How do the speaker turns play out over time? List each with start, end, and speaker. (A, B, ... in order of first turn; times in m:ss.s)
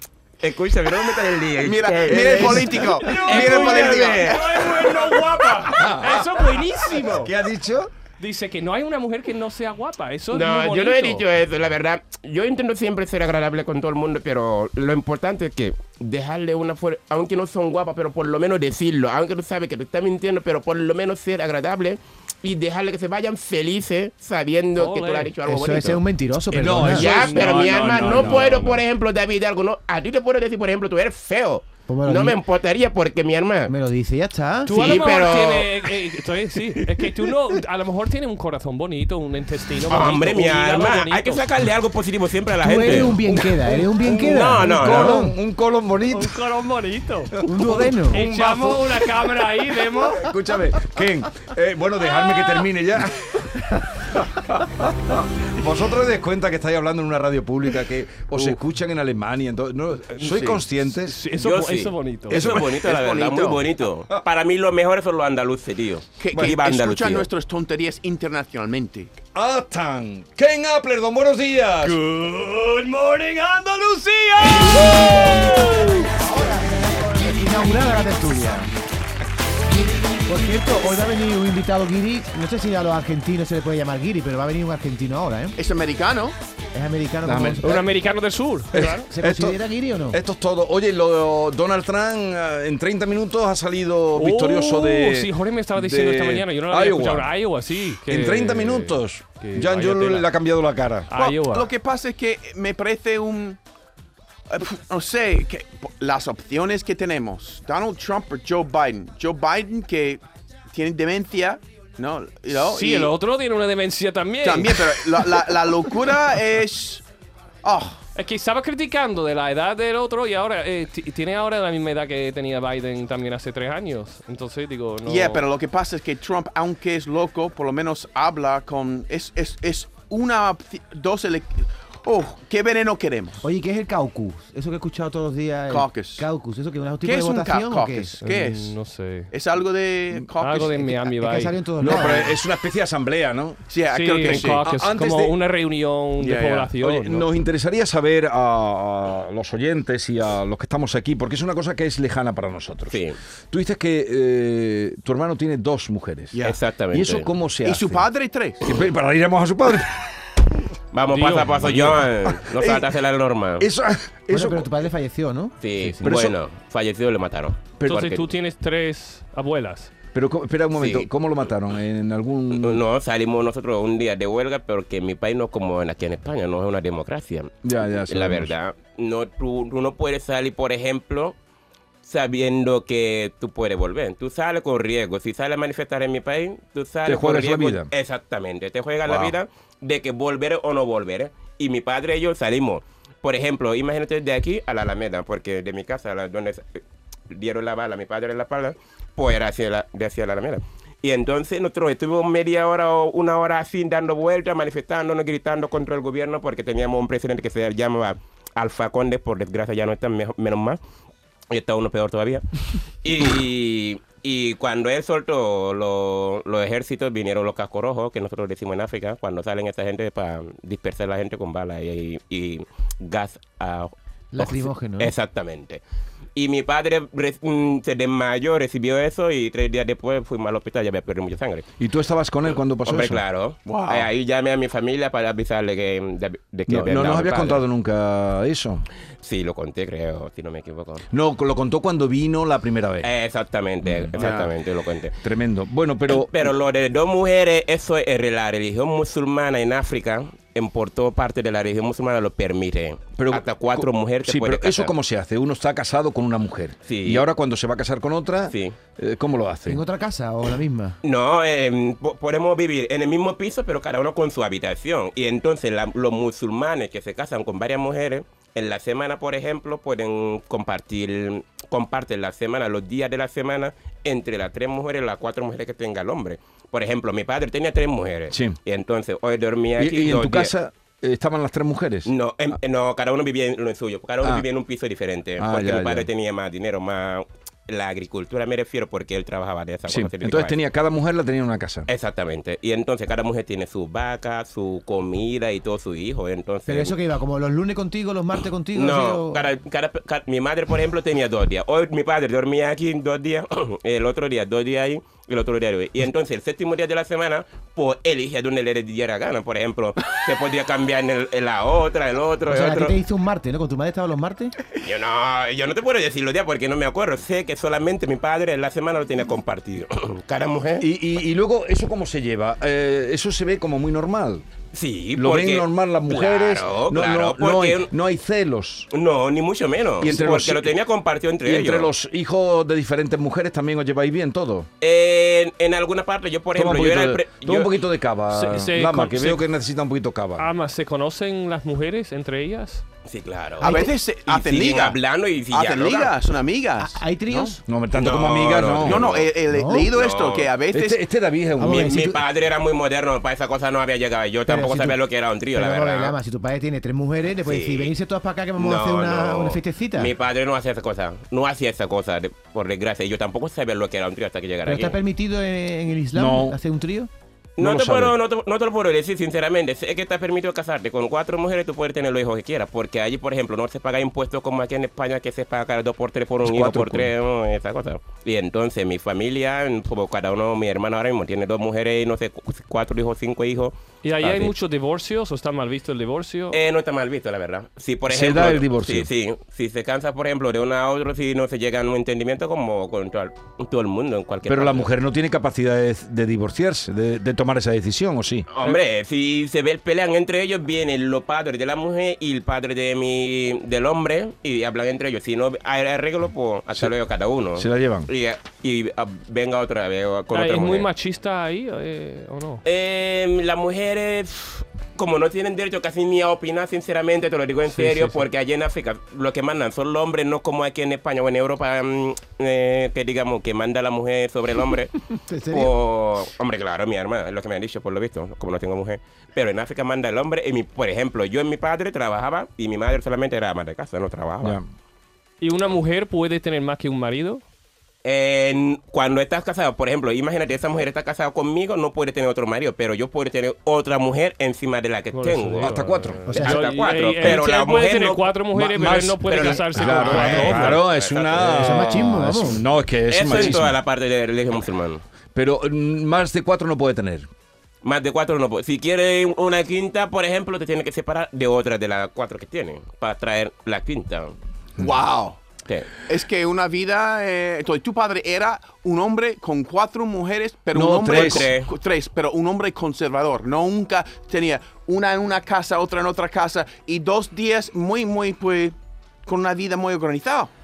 0:00.4-0:04.4 A
0:01.6-0:04.4 B
0:02.1-0:04.2 C
0:02.4-0:07.3 D
0:05.6-0:07.9 C
0:08.2-0:11.2 D
0:10.3-0:26.0 A
0:24.8-0:25.3 D
0:25.4-0:27.1 E
0:26.5-0:28.6 C
0:26.7-0:33.7 A
0:26.8-0:28.8 D
0:31.9-0:32.4 E
0:33.7-0:35.0 E
0:34.6-0:41.4 D
0:34.7-0:35.8 A
0:39.9-0:43.2 A
0:42.6-0:45.3 E
0:42.9-0:46.4 C
0:44.0-0:45.2 A
0:46.1-0:47.4 D
0:47.3-0:49.3 C
0:47.4-0:48.2 E
0:48.1-0:50.3 D
0:49.8-1:01.2 C
1:00.3-1:00.6 B
1:01.0-1:02.5 D
1:01.4-1:07.3 A
1:02.3-1:03.0 C
1:02.9-1:03.6 B
1:06.2-1:09.1 B
1:09.3-1:16.1 C
1:11.8-1:13.4 D
1:14.4-1:15.6 D
1:16.1-1:18.7 E
1:20.2-1:25.6 E
1:25.6-1:26.3 B
1:26.7-1:27.8 E
1:27.2-1:27.8 C
1:27.6-1:29.1 D
1:28.7-1:41.1 C
1:29.1-1:30.2 E
1:34.1-1:40.3 D
1:41.1-1:41.7 D
1:41.1-1:43.6 B
1:44.5-1:50.2 B
1:50.7-1:53.1 B
1:52.5-1:55.4 D
1:54.4-1:57.0 B
1:57.6-1:58.0 B
1:58.2-2:05.4 D
2:05.0-2:13.4 B
2:13.4-2:18.1 E
2:15.7-2:16.2 B
2:17.0-2:18.7 B
2:18.2-2:19.3 D
2:19.3-2:21.0 B
2:20.4-2:21.6 D
2:21.1-2:22.4 E
2:21.8-2:23.6 C
2:23.7-2:24.6 B
2:23.9-2:27.3 D
2:24.2-2:25.3 C
2:26.2-2:26.7 B
2:26.8-2:36.4 C
2:32.9-2:33.2 A
2:36.4-2:37.3 A
2:36.9-2:38.0 C
2:37.6-2:38.6 B
2:38.6-2:40.1 C
2:40.9-2:43.7 A
2:41.1-2:42.0 D
2:41.6-2:42.9 C
2:43.6-2:44.8 C
2:44.3-2:46.0 E
2:45.6-2:48.1 A
2:46.0-2:46.4 C
2:47.8-2:48.2 C
2:47.8-2:49.9 D
2:50.1-2:52.8 C
2:50.8-2:51.1 A
2:52.5-2:57.5 A
2:57.6-2:58.5 C
2:58.0-3:01.3 A
3:02.0-3:30.8 A
3:07.0-3:07.9 C
3:09.0-3:09.3 C
3:31.5-3:32.4 A
3:33.0-3:45.8 A
3:44.3-3:45.1 E
3:46.4-3:51.6 A
3:51.8-3:53.2 C
3:52.8-3:57.6 A
3:53.6-3:54.1 B
3:56.7-3:58.8 C
3:59.2-4:01.0 A
4:01.1-4:03.1 C
4:03.0-4:05.2 A
4:03.8-4:04.5 C
4:04.2-4:04.5 B
4:05.2-4:06.5 C
4:06.1-4:14.9 A
4:13.2-4:19.8 C
4:16.8-4:17.2 A
4:18.5-4:18.8 A
4:19.6-4:21.0 E
4:21.0-4:40.5 A
4:38.3-4:38.6 C
4:39.8-4:42.1 C
4:42.0-4:50.6 A
4:45.4-4:46.1 C
4:49.9-4:51.9 C
4:51.9-4:57.0 A
4:56.7-4:59.4 E
4:58.7-5:13.0 A
5:12.5-5:14.6 E
5:14.8-5:20.9 A
5:20.8-5:24.4 C
5:24.7-5:27.9 A
5:25.2-5:28.9 C
5:28.9-5:31.9 A
5:30.0-5:30.8 C
5:31.4-5:34.7 C
5:34.8-5:37.7 A
5:36.5-5:40.5 C
5:38.3-5:39.4 D
5:40.4-5:42.8 D
5:43.1-5:46.1 A
5:43.6-5:45.0 B
5:45.5-5:47.6 B
5:46.8-5:47.6 E
5:47.6-5:49.1 C
5:47.9-5:49.3 A
5:48.8-5:51.0 B
5:49.5-5:49.9 E
5:49.9-5:50.5 A
5:50.7-5:52.1 C
5:51.6-5:52.2 E
5:51.6-5:56.2 A
5:54.5-5:55.0 E
5:55.5-6:00.1 E
5:57.4-5:57.9 A
5:58.6-6:05.0 A
6:04.6-6:07.1 E
6:06.1-6:06.6 C
6:07.6-6:24.5 A
6:07.6-6:08.1 C
6:16.4-6:17.1 C
6:24.0-6:26.6 D
6:26.5-6:34.9 A
6:28.1-6:29.1 C
6:34.4-6:38.5 C
6:38.5-6:50.9 A
6:47.6-6:48.1 C
6:50.3-6:52.6 D
6:52.6-7:14.6 A
6:57.8-6:58.1 D
7:05.2-7:05.7 E
7:15.4-7:17.4 D
7:18.0-7:28.3 A
7:25.1-7:30.8 D
7:25.6-7:26.2 C
7:26.3-7:26.6 E
7:28.5-7:33.8 C
7:29.2-7:32.0 A
7:31.4-7:32.6 E
7:33.1-7:35.0 A
7:35.3-7:37.3 C
7:37.8-7:44.3 A
7:44.8-7:45.4 B
7:45.6-7:46.0 A
7:46.1-7:58.7 B
7:50.7-7:51.5 C
7:51.0-7:51.7 A
7:59.2-8:00.5 B